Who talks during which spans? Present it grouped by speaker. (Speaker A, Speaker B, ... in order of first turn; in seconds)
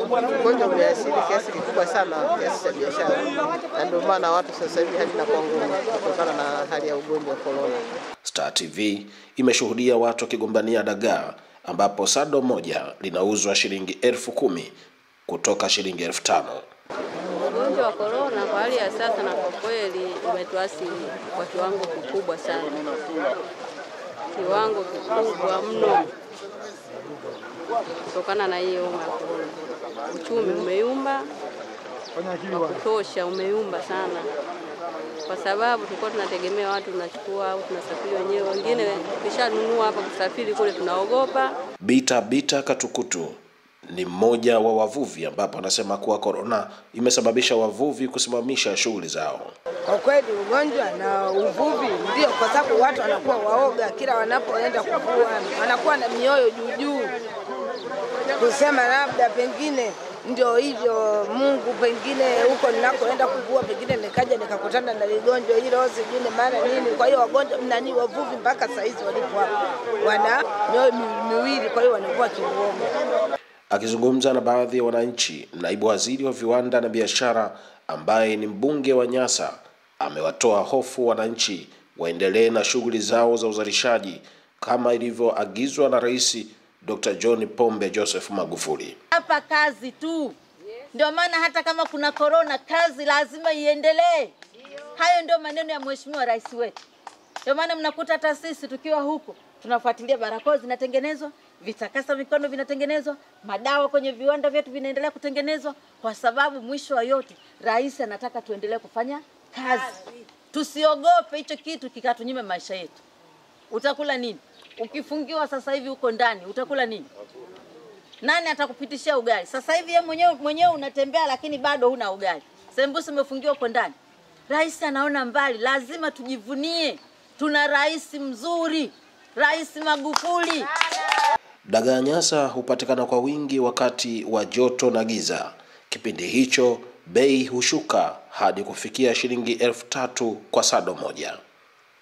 Speaker A: 0.2-7.8
Speaker B: 8.2-14.7, 15.3-16.6, 41.8-43.4, 43.9-49.5, 73.7-89.0, 131.7-141.4
Speaker C: 17.5-22.8, 24.4-26.1, 28.1-31.3, 32.5-34.3, 35.3-41.6
Speaker D: 49.9-57.1, 58.4-72.9
Speaker E: 89.1-90.4, 90.9-94.3, 95.0-96.8, 97.5-113.0, 113.7-117.1, 118.2-123.9, 124.5-130.7